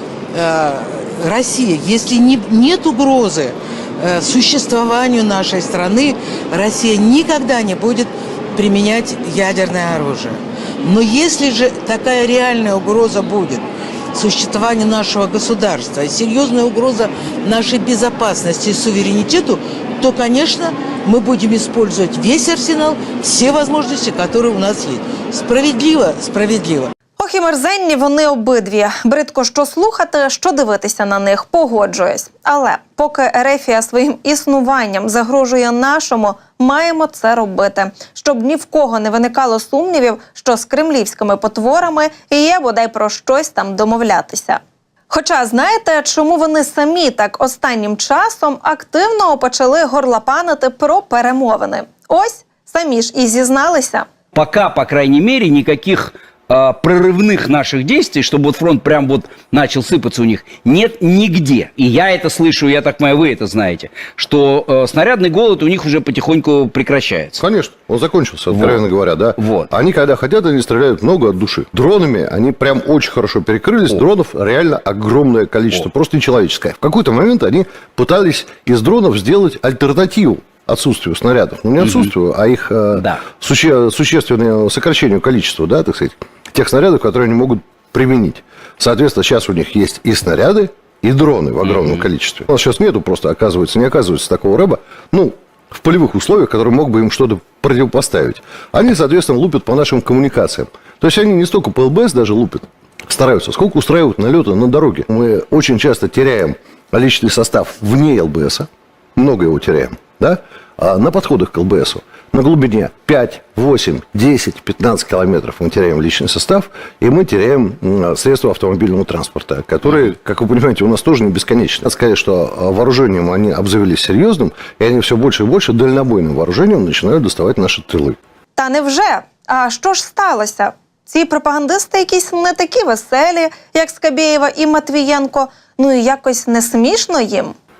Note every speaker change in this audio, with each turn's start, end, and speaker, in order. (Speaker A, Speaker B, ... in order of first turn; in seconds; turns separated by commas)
Speaker A: 0.3-26.9, Speaker B: 27.2-54.1, Speaker C: 54.3-67.4, Speaker D: 67.4-128.2, Speaker C: 68.5-68.8, Speaker C: 69.4-69.7, Speaker C: 81.8-82.1, Speaker C: 91.6-92.0, Speaker B: 128.6-137.5